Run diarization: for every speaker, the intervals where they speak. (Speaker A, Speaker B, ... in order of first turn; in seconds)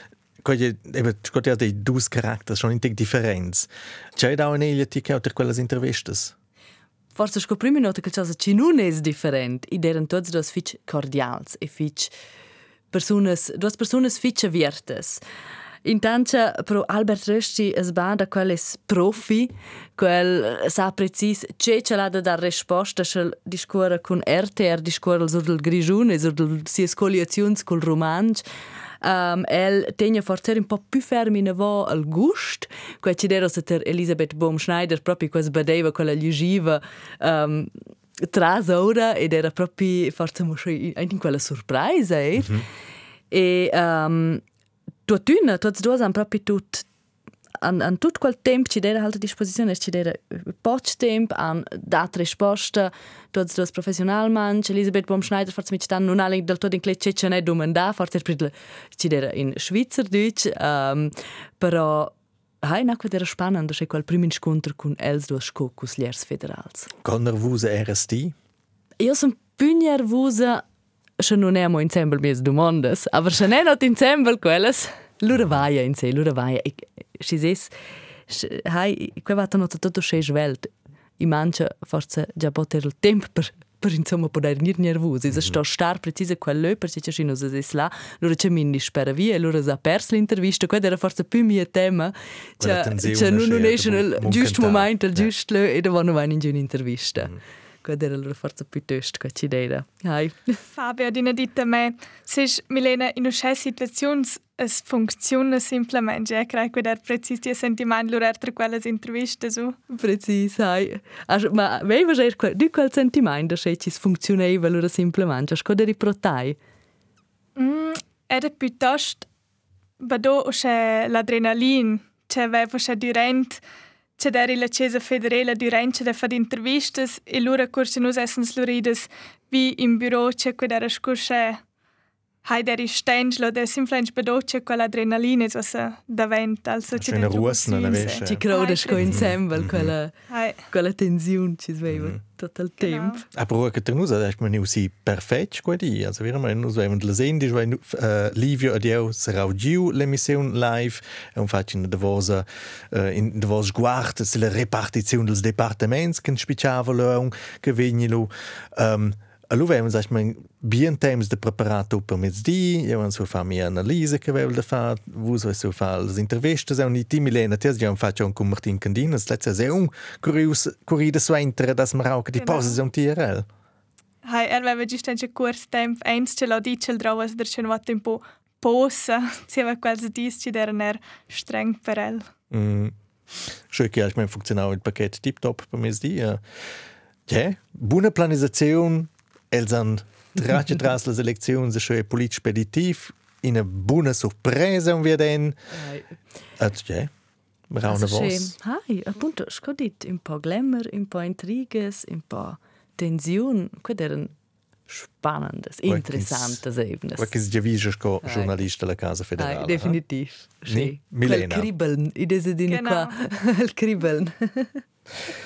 Speaker A: 0.4-6.3, 42.4-42.6, 67.0-68.3, 92.6-95.3, 136.9-138.4, 139.0-139.9, 141.9-142.2, 143.3-173.5, 182.5-182.9, 183.7-186.4, 187.3-195.6, 196.6-197.1, 197.7-198.5, 205.9-206.6, 207.2-210.0, 210.7-211.7
Speaker B: 7.2-12.1, 12.9-15.2, 15.8-28.4, 29.0-42.6, 43.3-44.4, 45.1-46.9, 47.6-66.9, 69.0-70.6, 71.2-77.7, 78.3-100.6, 109.9-116.6, 138.0-140.1, 140.7-143.2, 195.7-196.1, 197.9-204.3, 204.9-207.3, 208.2-208.5, 209.4-214.8
Speaker C: 100.8-109.8, 117.6-119.3, 120.0-123.6, 124.2-131.6, 132.4-139.3, 140.3-140.6, 142.8-143.2, 172.4-172.8, 174.3-182.2, 212.7-213.2